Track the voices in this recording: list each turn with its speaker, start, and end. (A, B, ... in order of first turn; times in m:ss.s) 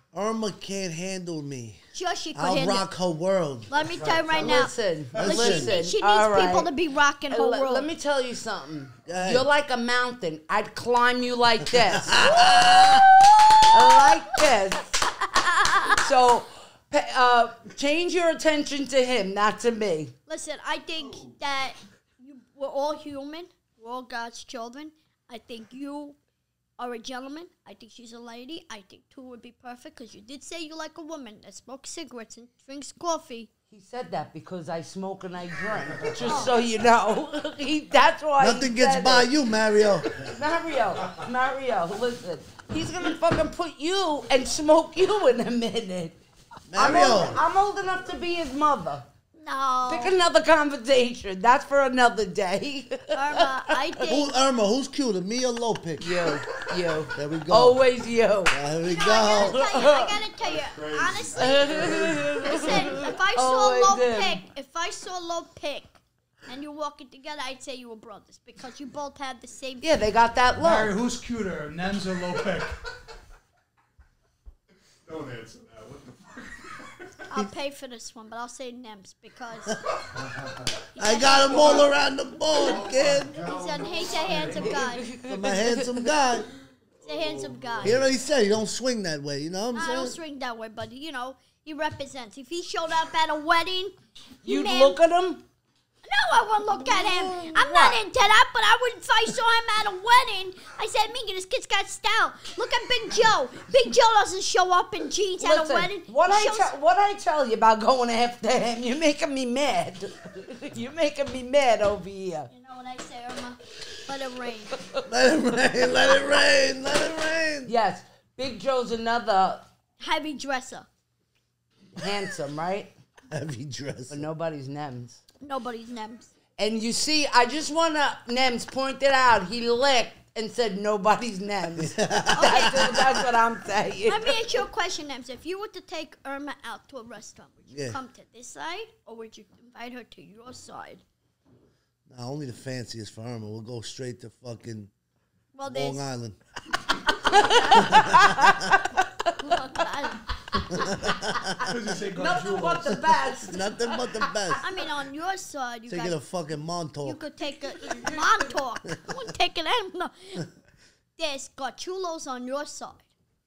0:00.1-0:01.8 A
0:01.9-0:02.9 B
0:02.3-0:05.8 A
0:03.7-0:07.9 B
0:04.1-0:06.7 C
0:07.3-0:13.0 C
0:09.0-0:09.5 A
0:11.7-0:13.1 A
0:12.2-0:14.1 B
0:13.7-0:15.0 C
0:15.2-0:16.0 B
0:15.8-0:20.1 C
0:20.3-0:26.2 B
0:26.8-0:33.5 B
0:33.7-0:39.3 C
0:36.2-0:36.5 B
0:38.4-0:40.2 A
0:40.1-0:46.2 C
0:46.7-0:47.4 A
0:46.7-0:49.0 C
0:49.3-0:50.1 B
0:49.8-0:54.1 C
0:53.1-0:54.3 B
0:54.0-0:56.2 A
0:56.0-1:00.2 C
0:57.1-0:57.8 A
0:58.5-0:59.6 A
0:58.8-1:09.8 B
1:00.4-1:03.0 D
1:01.4-1:04.4 C
1:09.8-1:10.9 C
1:10.6-1:12.8 E
1:15.0-1:16.9 D
1:17.3-1:19.9 B
1:20.0-1:20.7 D
1:20.9-1:21.9 B
1:20.9-1:23.4 A
1:21.3-1:21.9 D
1:22.5-1:24.9 D
1:23.3-1:25.1 B
1:24.6-1:26.1 C
1:25.2-1:26.5 A
1:27.0-1:28.0 D
1:27.0-1:28.0 B
1:27.8-1:30.2 A
1:29.7-1:35.0 B
1:34.4-1:35.4 C
1:36.0-1:46.7 B
1:36.7-1:38.0 C
1:45.4-1:52.5 C
1:52.5-1:54.7 B
1:55.0-1:57.7 A
1:57.6-1:59.7 C
2:00.0-2:00.9 B
2:02.0-2:02.9 C
2:03.3-2:04.3 A
2:04.1-2:05.2 C
2:05.4-2:06.3 B
2:06.6-2:14.4 C
2:11.8-2:13.2 A
2:12.3-2:13.2 B
2:14.0-2:21.0 B
2:17.7-2:18.0 A
2:22.1-2:24.9 A
2:25.5-2:26.0 B
2:25.6-2:26.4 A
2:27.1-2:29.7 C
2:27.2-2:28.1 B
2:27.8-2:28.7 A
2:29.4-2:30.8 B
2:30.5-2:34.6 C
2:30.7-2:31.7 A
2:31.6-2:33.3 E
2:33.5-2:34.6 A
2:34.6-2:36.2 B
2:35.9-2:37.2 A
2:37.0-2:40.4 B
2:37.8-2:38.4 E
2:41.2-2:43.1 B